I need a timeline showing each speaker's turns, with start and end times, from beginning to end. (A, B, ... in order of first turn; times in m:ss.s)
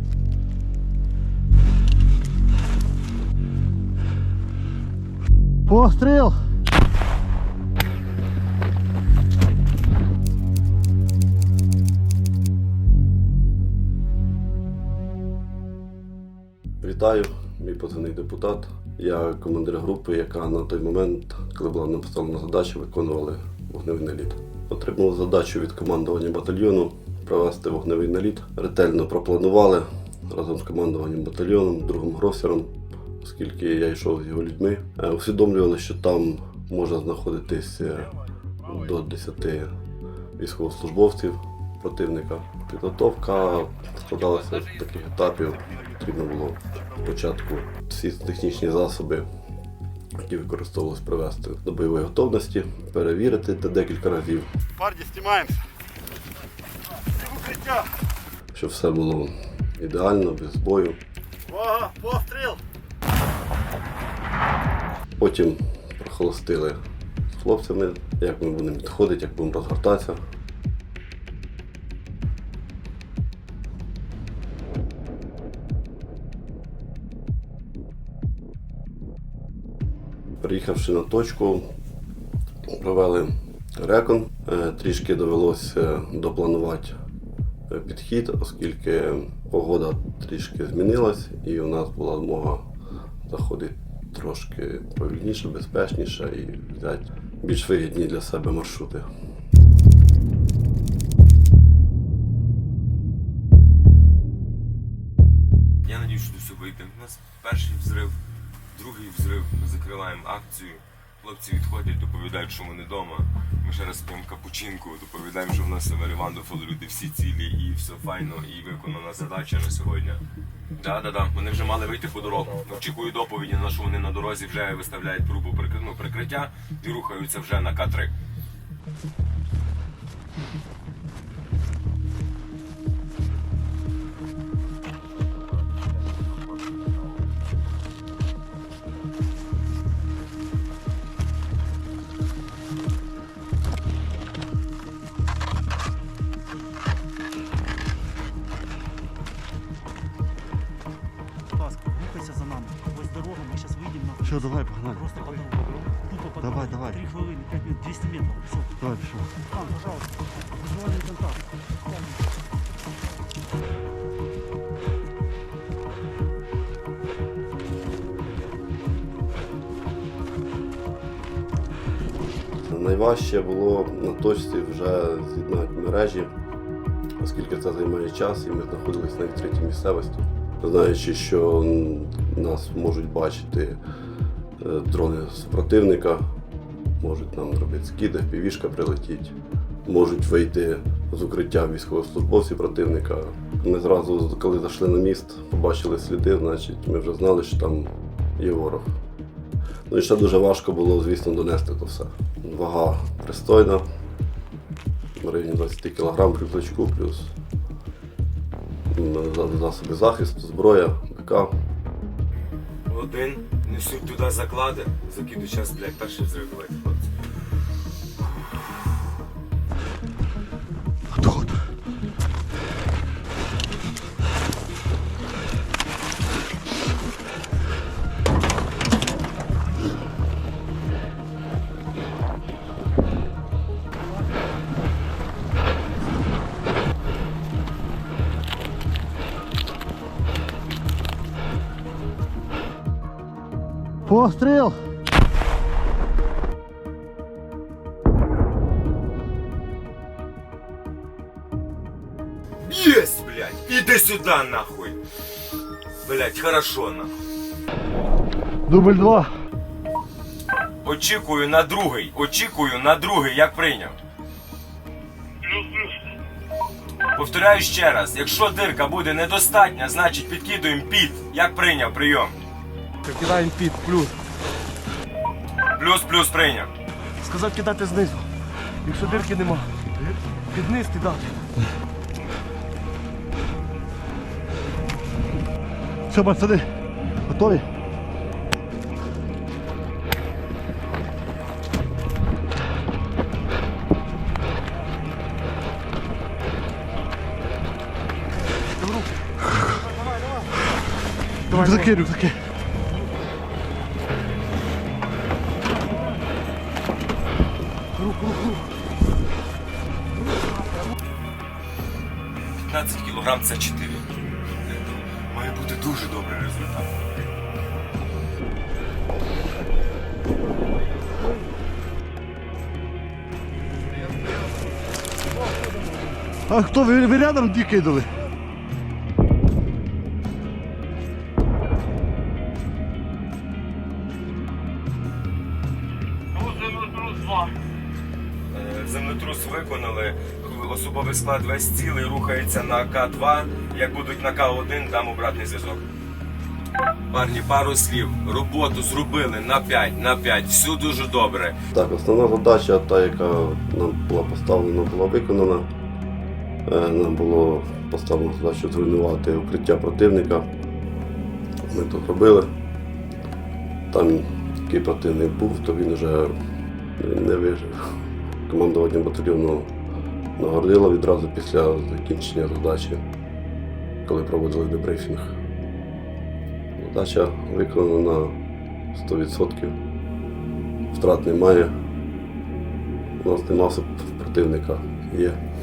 0:05.7-0:06.3 A
0:16.8-0:39.7 B
0:40.4-0:49.3 B
0:50.2-0:54.5 B
0:55.0-0:55.6 A
0:58.5-1:01.0 B
1:01.7-1:02.6 A
1:05.2-1:06.8 B
1:07.3-1:10.2 B
1:20.4-1:21.7 B
1:22.7-1:27.0 B
1:27.7-1:32.6 B
1:33.3-1:39.1 B
1:45.8-1:48.2 C
1:48.7-2:00.2 C
2:00.7-2:08.1 C
2:31.6-2:35.6 D
2:34.5-2:35.0 A
2:36.2-2:38.8 D
2:36.4-2:36.9 A
2:38.9-2:39.2 A
2:39.5-2:39.9 D
2:40.6-2:41.3 D
2:52.6-2:56.3 B
2:57.2-3:03.8 B
3:04.6-3:06.3 B
3:07.0-3:18.9 B
3:19.9-3:23.8 B
3:25.2-3:27.3 B
3:28.9-3:31.5 B
3:32.3-3:37.1 C
4:04.2-4:04.8 A
4:12.6-4:15.0 C
4:16.0-4:17.2 C
4:18.7-4:19.3 A
4:20.8-4:24.0 C
4:25.5-4:25.9 C
4:27.1-4:32.4 C
4:33.0-4:34.2 A
4:35.7-4:36.7 C
4:37.2-4:41.5 A
4:46.1-4:46.7 A
4:47.3-4:47.6 A
5:01.5-5:02.5 A
5:08.0-5:08.6 A
5:12.6-5:17.2 C
5:26.5-5:28.1 A
5:36.3-5:37.5 C
5:38.5-5:45.9 C
5:47.1-5:51.6 C
5:51.7-5:55.7 B
5:56.7-6:00.5 B
6:01.7-6:02.5 B
6:03.9-6:06.3 B
6:07.0-6:09.7 B
6:10.4-6:13.0 B
6:14.0-6:15.4 B
6:16.8-6:18.4 B
6:18.9-6:19.8 B
6:20.9-6:21.7 B
6:23.2-6:25.4 B